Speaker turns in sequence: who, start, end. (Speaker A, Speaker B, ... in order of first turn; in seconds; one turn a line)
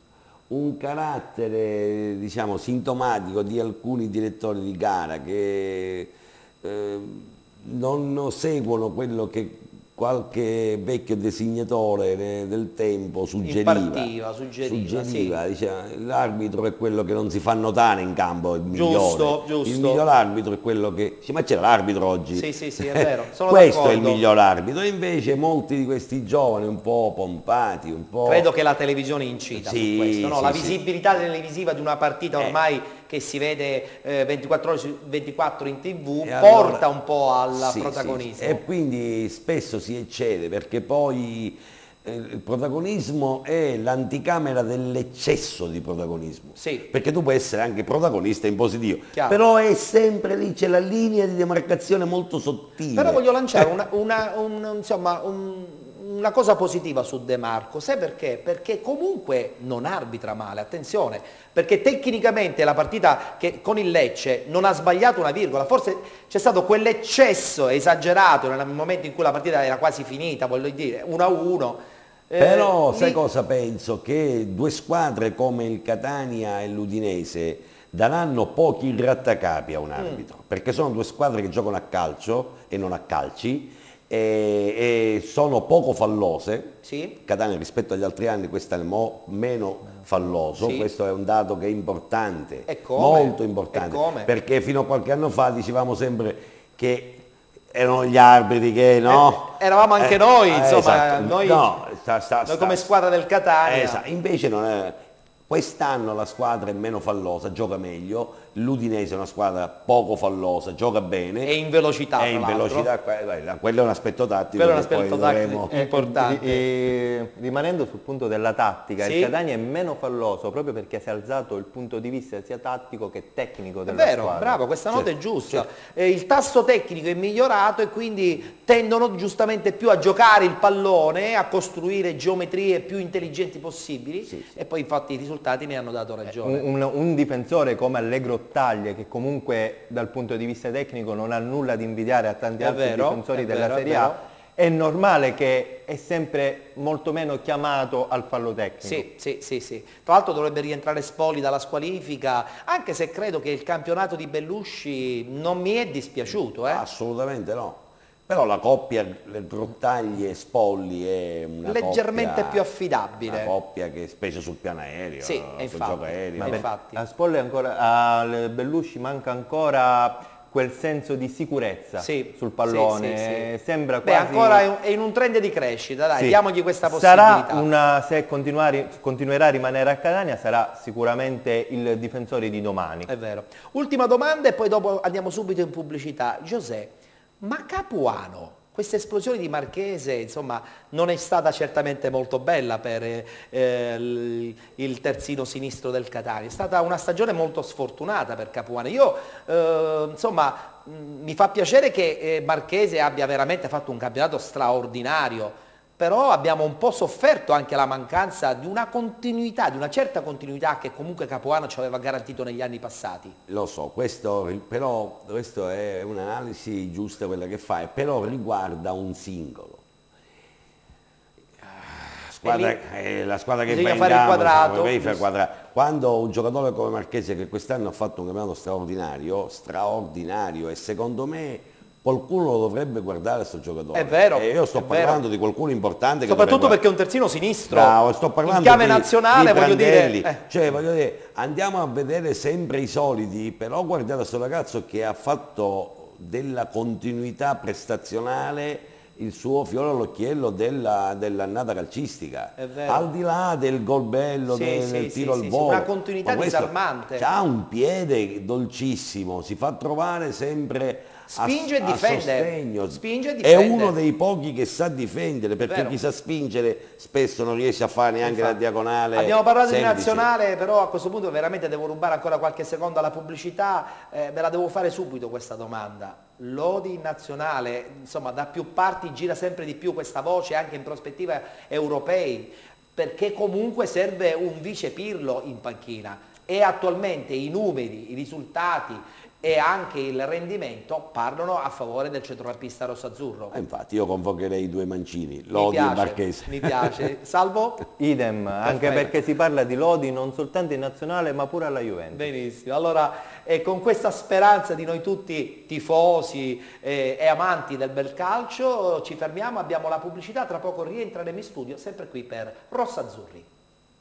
Speaker A: 0.5-28.5
Speaker B: 13.4-15.4
Speaker B: 18.7-20.0
Speaker B: 22.3-24.2
Speaker B: 28.2-38.6
Speaker A: 29.6-30.8
Speaker A: 36.2-36.9
Speaker A: 37.5-53.7
Speaker B: 46.6-46.9
Speaker B: 49.1-49.4
Speaker B: 52.9-73.2
Speaker A: 72.4-102.9
Speaker B: 80.0-80.2
Speaker B: 86.8-87.2
Speaker B: 90.6-90.9
Speaker B: 92.7-94.3
Speaker B: 99.0-101.7
Speaker B: 102.4-104.0
Speaker A: 103.6-111.6
Speaker B: 111.4-112.9
Speaker A: 112.2-115.7
Speaker B: 114.5-116.6
Speaker C: 115.7-124.6
Speaker B: 119.0-119.3
Speaker B: 123.9-136.7
Speaker A: 124.9-125.6
Speaker A: 134.3-134.6
Speaker C: 136.2-149.1
Speaker B: 142.6-144.2
Speaker B: 148.8-156.8
Speaker A: 156.6-162.6
Speaker B: 161.6-163.5
Speaker A: 163.2-166.6
Speaker B: 165.2-167.0
Speaker C: 166.4-174.7
Speaker B: 172.0-173.5
Speaker B: 174.0-177.7
Speaker C: 176.1-183.1
Speaker B: 183.1-213.3
Speaker A: 213.5-219.8
Speaker A: 221.6-236.8
Speaker B: 222.4-222.8
Speaker B: 223.7-225.2
Speaker B: 233.9-235.2
Speaker B: 236.2-240.4
Speaker A: 237.7-270.3
Speaker B: 252.6-253.1
Speaker B: 254.5-257.2
Speaker B: 261.3-263.9
Speaker B: 265.6-266.0
Speaker B: 268.2-268.6
Speaker B: 269.1-293.5
Speaker A: 293.5-297.0
Speaker B: 295.5-297.9
Speaker C: 298.0-302.3
Speaker B: 298.6-299.1
Speaker B: 302.1-313.5